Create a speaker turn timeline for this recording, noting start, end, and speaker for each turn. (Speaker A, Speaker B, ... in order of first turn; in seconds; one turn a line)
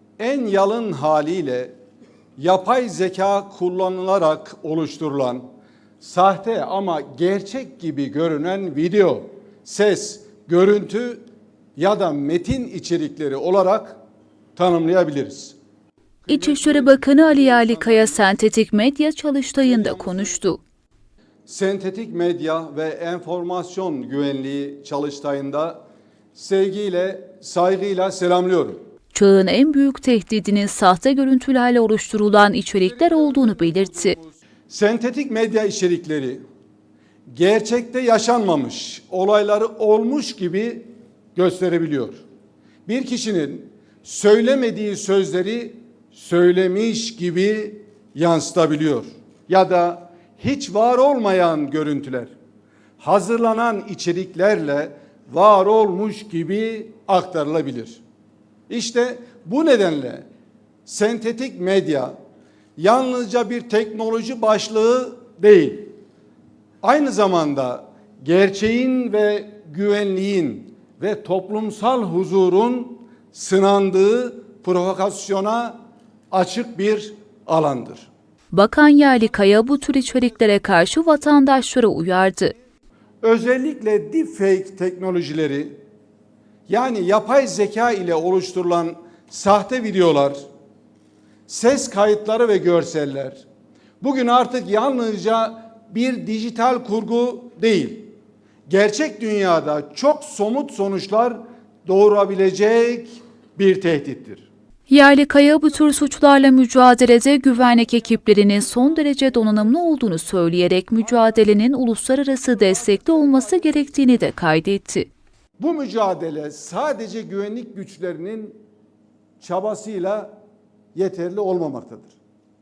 Speaker A: 0.2-1.7
Speaker A: 2.4-5.5
Speaker A: 6.0-11.2
Speaker A: 11.8-14.0
Speaker A: 14.6-15.6
Speaker A: 16.2-18.4
Speaker B: 16.3-20.6
Speaker A: 19.6-20.3
Speaker A: 21.5-25.8
Speaker A: 26.3-28.8
Speaker B: 29.1-34.2
Speaker A: 32.8-36.4
Speaker A: 37.3-42.2
Speaker A: 42.9-52.3
Speaker A: 53.0-58.0
Speaker A: 58.7-60.2
Speaker A: 60.9-62.1
Speaker A: 62.8-65.9
Speaker A: 66.8-75.8
Speaker A: 76.3-78.1
Speaker B: 78.5-82.5
Speaker A: 83.2-85.8
Speaker A: 86.7-90.4
Speaker A: 91.5-93.4
Speaker A: 94.0-98.1
Speaker A: 98.7-104.5
Speaker B: 104.9-115.1
Speaker A: 112.5-114.0
Speaker A: 115.6-118.6
Speaker A: 119.4-120.3
Speaker A: 121.0-122.2